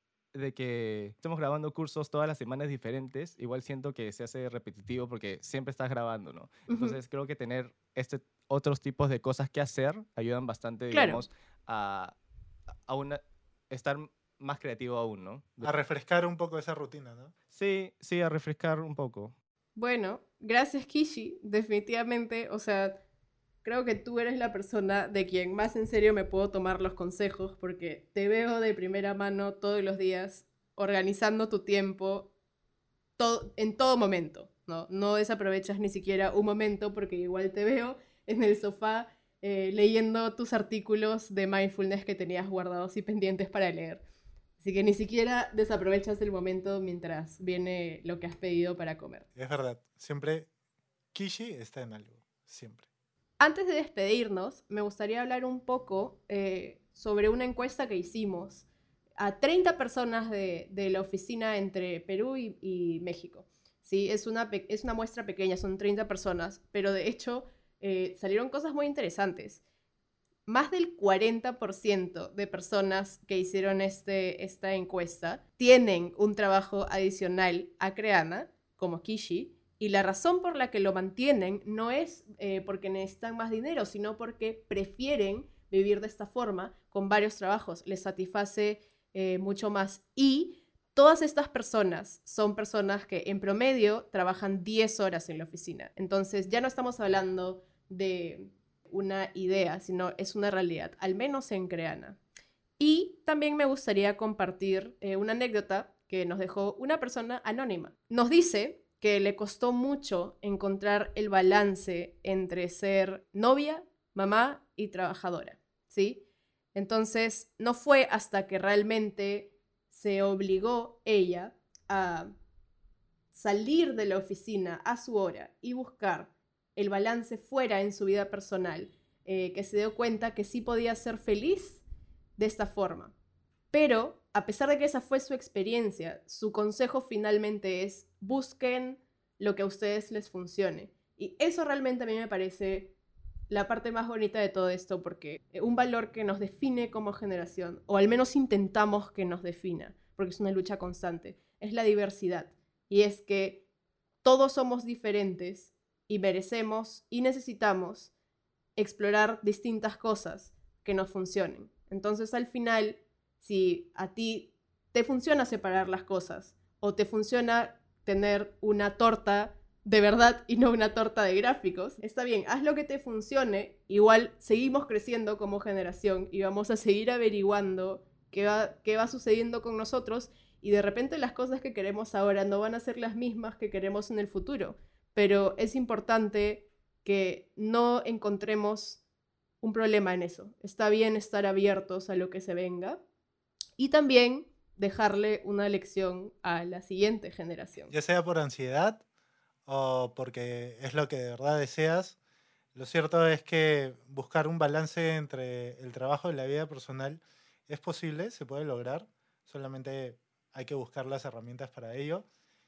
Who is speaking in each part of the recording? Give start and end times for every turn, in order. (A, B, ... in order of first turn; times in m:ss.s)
0:00.3-0:12.2 A
0:06.7-0:07.0 B
0:10.9-0:11.2 B
0:12.9-0:15.7 A
0:15.6-0:17.3 C
0:17.5-0:19.4 A
0:19.8-0:23.0 B
0:23.6-0:32.3 B
0:33.2-0:44.0 B
0:44.6-0:49.3 B
0:49.4-0:50.5 C
0:51.1-0:52.9 C
0:53.4-0:58.6 B
0:59.2-1:09.6 B
1:10.5-1:42.2 B
1:42.8-1:56.2 B
1:56.8-2:02.3 B
2:03.3-2:11.8 B
2:12.4-2:13.1 B
2:13.7-2:22.9 B
2:23.5-2:33.6 B
2:34.2-2:38.1 B
2:38.8-3:09.0 B
3:09.6-3:13.0 B
3:13.8-3:17.9 B
3:17.9-3:19.0 C
3:19.7-3:22.2 C
3:22.8-3:32.3 C